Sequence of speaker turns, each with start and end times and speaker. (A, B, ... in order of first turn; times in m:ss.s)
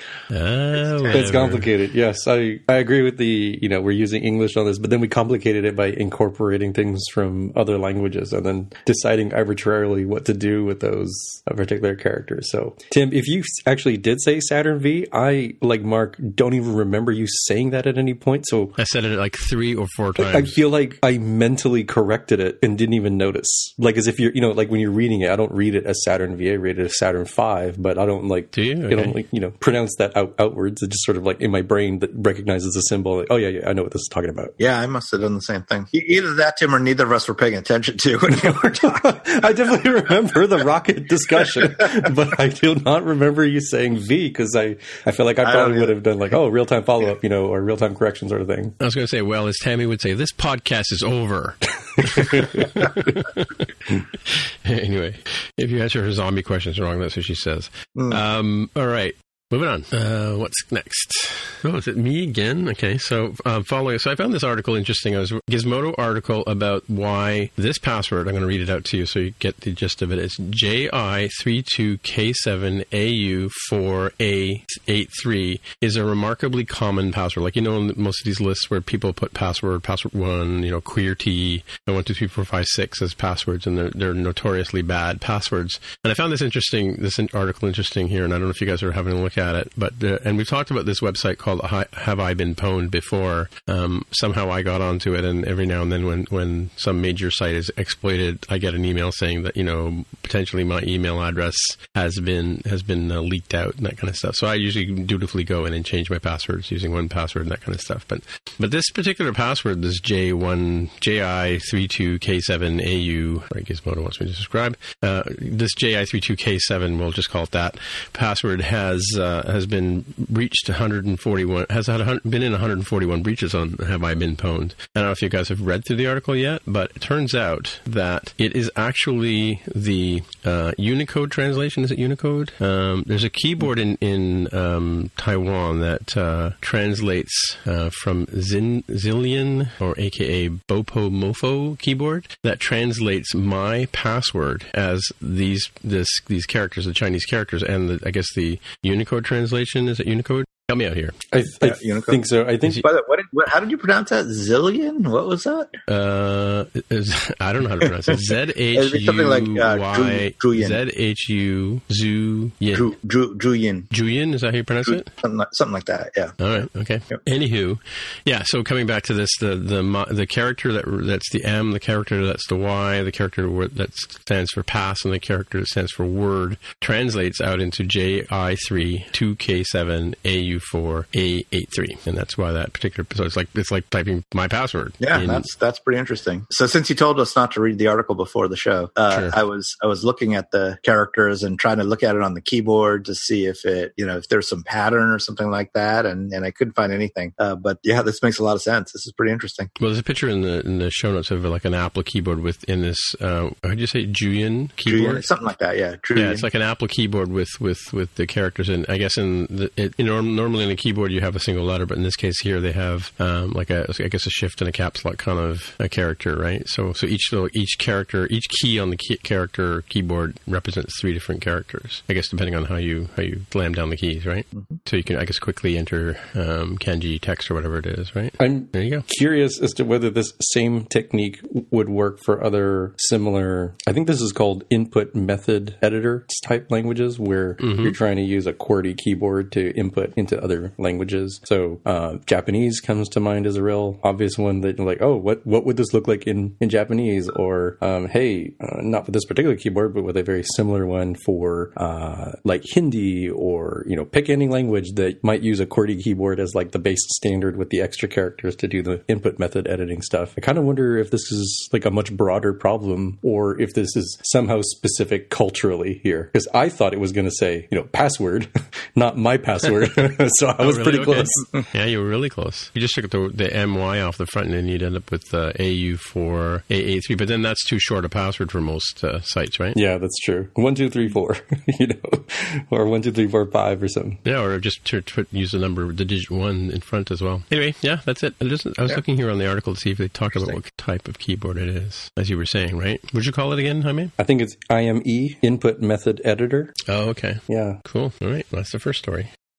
0:00.3-0:01.7 A
0:00.8-0:01.3 B
0:01.1-0:18.8 C
0:18.8-0:20.6 A
0:20.2-0:34.6 C
0:28.5-0:29.2 A
0:34.6-0:39.2 B
0:38.3-0:48.8 C
0:45.4-0:45.9 B
0:48.8-2:31.2 A
0:52.0-0:52.7 C
0:57.9-0:58.2 B
2:31.3-2:32.8 C
2:31.6-2:32.2 B
2:32.8-2:35.8 B
2:35.9-2:42.9 A
2:38.7-2:40.8 B
2:42.7-2:43.9 B
2:43.9-2:45.1 A
2:44.9-2:46.4 B
2:46.4-3:05.5 A
3:05.0-3:19.7 B
3:09.1-3:09.4 A
3:19.8-3:25.2 A
3:24.9-3:26.4 B
3:26.1-3:49.0 A
3:48.4-4:31.4 C
3:57.6-3:57.9 A
4:29.7-4:39.8 A
4:39.7-4:44.2 C
4:44.2-4:54.1 A
4:54.2-4:56.7 C
4:56.9-4:59.3 A
4:57.5-4:57.8 C